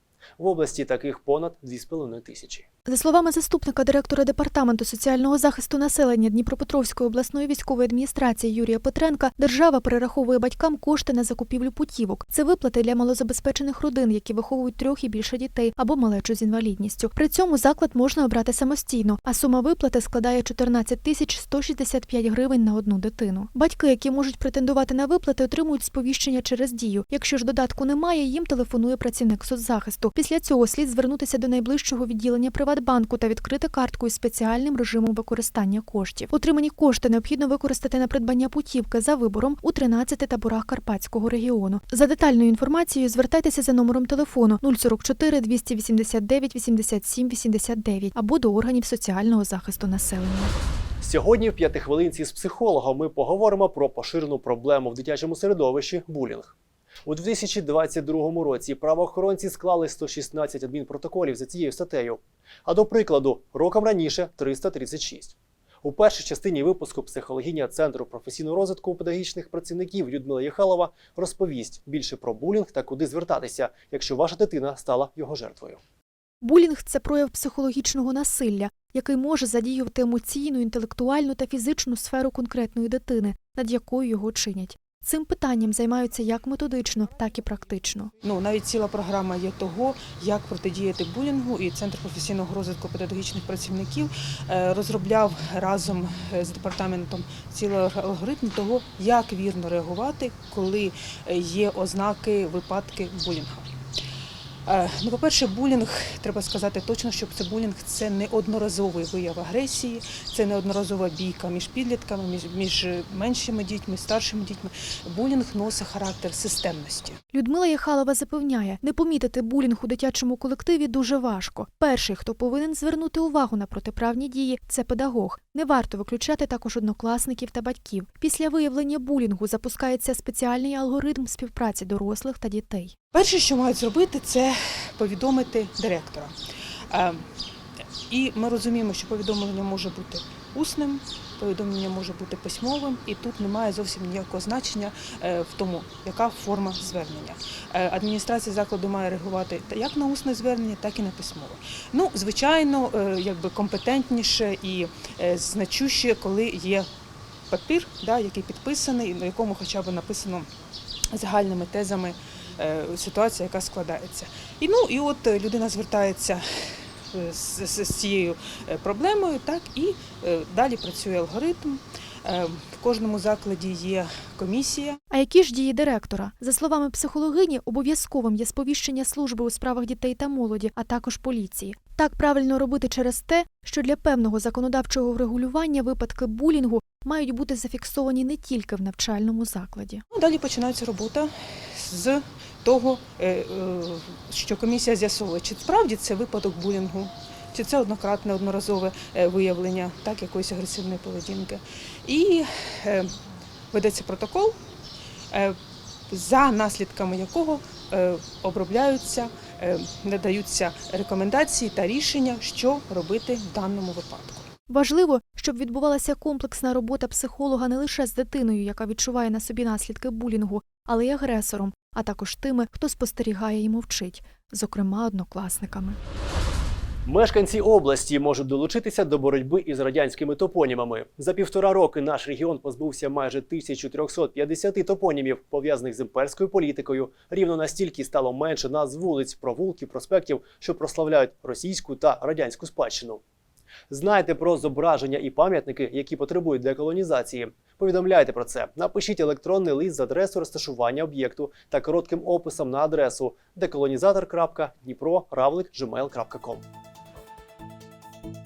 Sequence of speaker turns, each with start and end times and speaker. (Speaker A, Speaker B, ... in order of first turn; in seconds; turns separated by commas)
Speaker A: 0.4-2.7, Speaker B: 2.9-50.5, Speaker A: 51.0-56.5, Speaker A: 57.1-75.8, Speaker B: 76.4-88.1, Speaker C: 88.2-103.7, Speaker C: 104.7-117.2, Speaker B: 117.3-132.9, Speaker C: 133.1-136.3, Speaker C: 136.9-137.2, Speaker C: 138.1-156.8, Speaker C: 157.5-160.5, Speaker C: 161.2-166.4, Speaker C: 167.1-175.0, Speaker B: 175.1-190.0, Speaker C: 190.2-191.3, Speaker C: 191.8-203.0, Speaker C: 203.7-204.5, Speaker C: 206.1-214.5, Speaker B: 214.7-226.0, Speaker A: 227.1-243.2, Speaker A: 243.9-256.7